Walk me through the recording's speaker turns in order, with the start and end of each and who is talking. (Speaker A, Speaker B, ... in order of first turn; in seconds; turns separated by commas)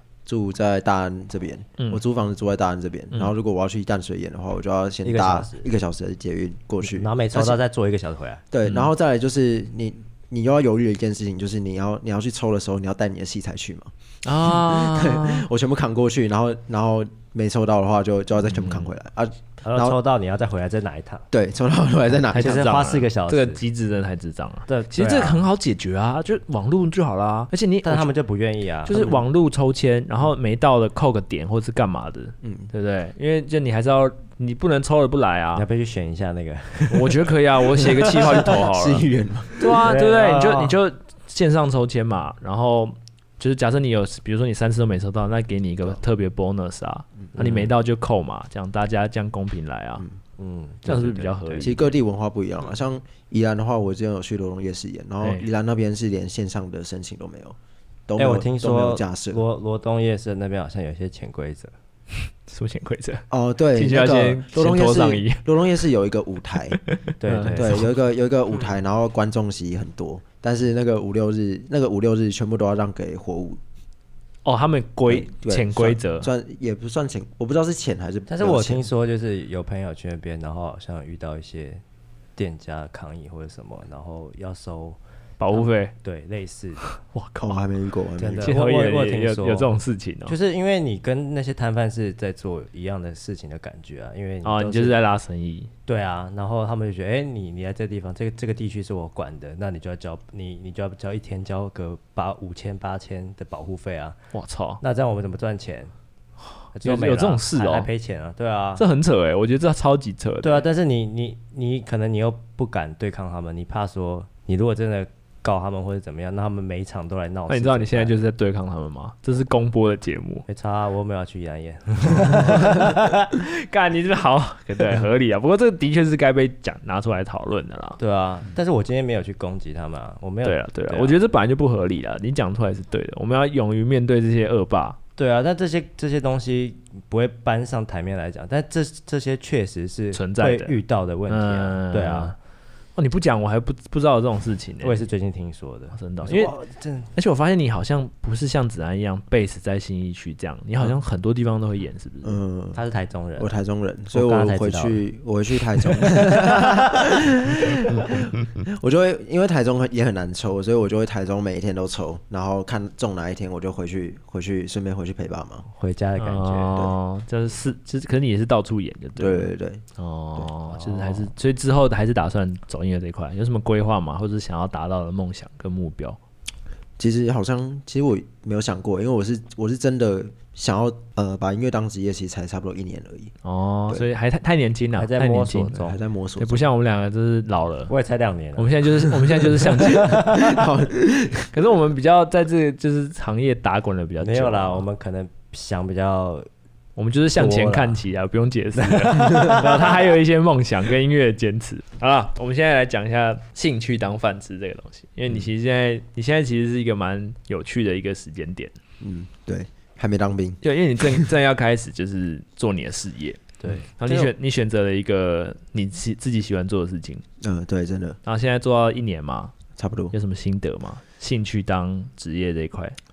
Speaker A: 0.2-7.6, Speaker B: 5.0-5.7, Speaker B: 6.8-8.4, Speaker A: 8.5-20.0, Speaker C: 8.6-8.9, Speaker C: 14.2-15.5, Speaker C: 18.4-18.9, Speaker B: 19.6-21.2, Speaker A: 21.3-22.9, Speaker B: 22.3-23.6, Speaker C: 22.3-28.1, Speaker B: 24.7-25.4, Speaker B: 27.8-29.0, Speaker C: 28.8-35.6, Speaker A: 28.9-29.2, Speaker A: 32.4-32.7, Speaker B: 35.5-38.2, Speaker C: 36.9-39.1, Speaker A: 37.8-39.8, Speaker C: 39.6-50.0, Speaker B: 39.7-40.8, Speaker B: 47.3-47.7, Speaker B: 50.4-51.7, Speaker C: 50.9-51.9, Speaker A: 51.6-57.6, Speaker A: 58.1-59.4, Speaker B: 58.2-61.7, Speaker C: 62.5-65.4, Speaker A: 63.3-66.8, Speaker C: 66.8-67.9, Speaker B: 67.2-67.8, Speaker A: 67.5-73.6, Speaker C: 74.4-76.3, Speaker A: 75.1-78.8, Speaker B: 78.3-81.8, Speaker B: 82.4-85.0, Speaker C: 85.4-85.9, Speaker B: 85.5-86.9, Speaker C: 86.8-87.6, Speaker A: 87.4-88.6, Speaker B: 88.2-89.7, Speaker C: 88.4-90.3, Speaker B: 90.2-94.9, Speaker C: 94.4-95.7, Speaker B: 95.9-104.2, Speaker C: 104.3-104.8, Speaker B: 104.8-105.9, Speaker C: 106.6-107.9, Speaker B: 106.7-108.8, Speaker C: 108.8-110.7, Speaker B: 110.4-118.1, Speaker C: 117.5-120.5, Speaker B: 120.5-123.2, Speaker C: 122.2-128.0, Speaker B: 128.0-131.2, Speaker C: 130.4-135.0, Speaker B: 135.2-142.3, Speaker C: 140.1-140.8, Speaker C: 141.3-142.3, Speaker C: 142.9-145.1, Speaker B: 144.8-147.1, Speaker C: 145.9-146.5, Speaker C: 147.1-152.4, Speaker A: 152.2-152.8, Speaker B: 152.7-153.6, Speaker A: 153.4-165.6, Speaker B: 154.1-155.0, Speaker B: 155.9-156.7, Speaker B: 165.7-166.8, Speaker C: 166.2-176.2, Speaker A: 169.2-169.8, Speaker B: 170.7-171.2, Speaker A: 177.0-183.3, Speaker C: 183.4-185.8, Speaker B: 184.9-186.0, Speaker A: 185.7-186.7, Speaker C: 186.4-187.9, Speaker B: 187.9-190.6, Speaker C: 188.6-190.2, Speaker A: 189.6-191.5, Speaker C: 191.5-194.8, Speaker B: 194.2-196.5, Speaker C: 196.9-208.7, Speaker B: 197.3-198.0, Speaker B: 198.8-200.1, Speaker A: 209.0-210.6, Speaker C: 210.6-213.4, Speaker B: 213.6-214.3, Speaker C: 214.0-217.2, Speaker A: 217.4-218.2, Speaker C: 218.2-219.5, Speaker A: 219.8-220.1, Speaker C: 220.1-223.0